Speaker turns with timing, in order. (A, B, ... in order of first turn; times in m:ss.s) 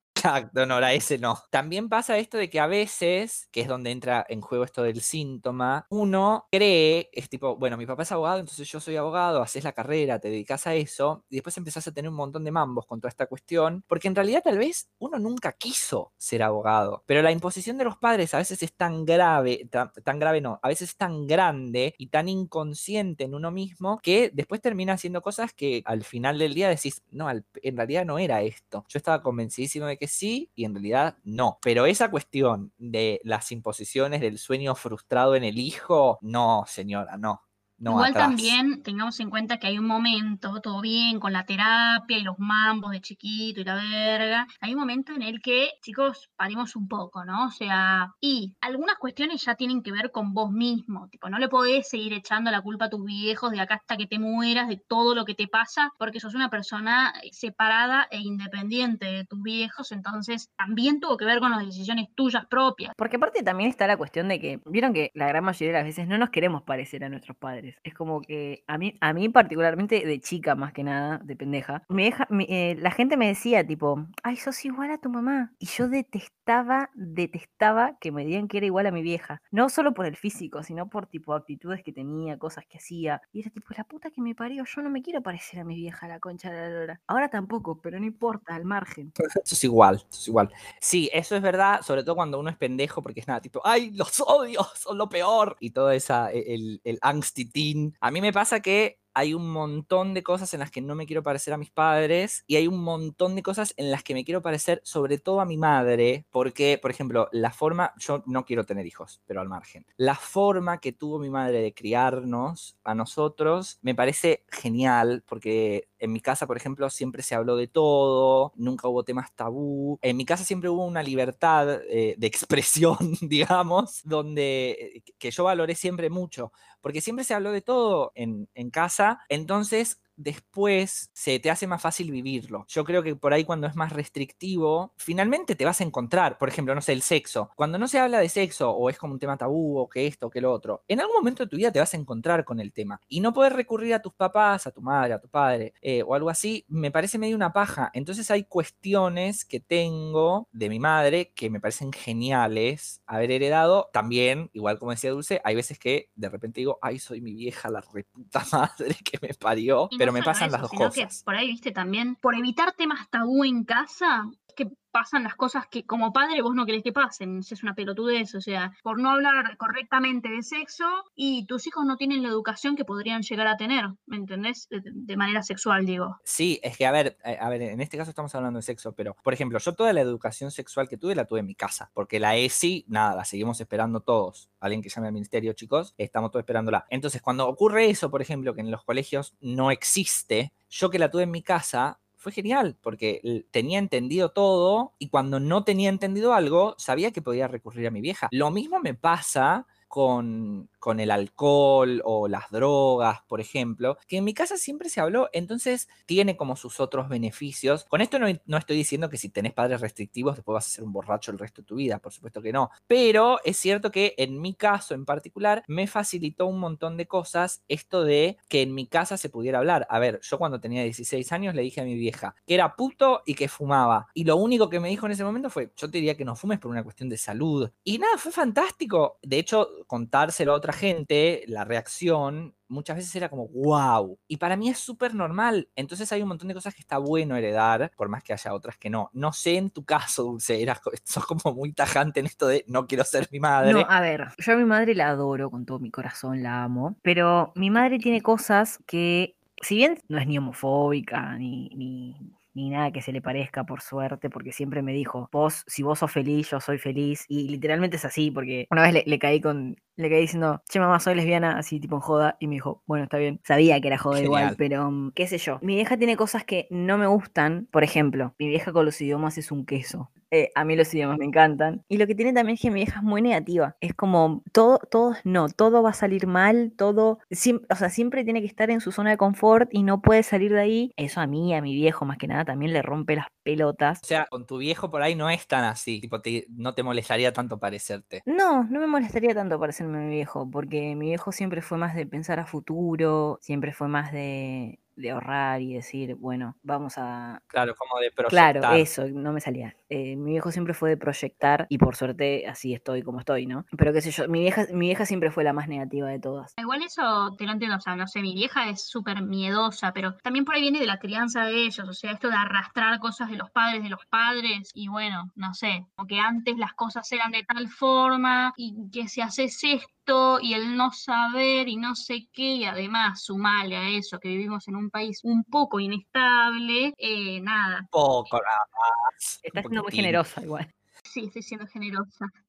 0:00.2-0:38.6 A
0:37.9-1:02.9 B
1:03.0-1:29.1 C
1:29.4-2:41.2 A
2:39.9-2:56.2 B
2:56.2-4:03.9 A
4:03.6-4:44.0 C
4:24.1-4:24.6 A
4:44.0-4:48.2 A
4:48.2-4:57.4 C
4:57.5-4:58.9 A
4:58.3-5:06.5 C
5:06.6-5:27.9 B
5:27.9-5:30.2 A
5:29.4-5:30.7 C
5:31.0-5:32.3 B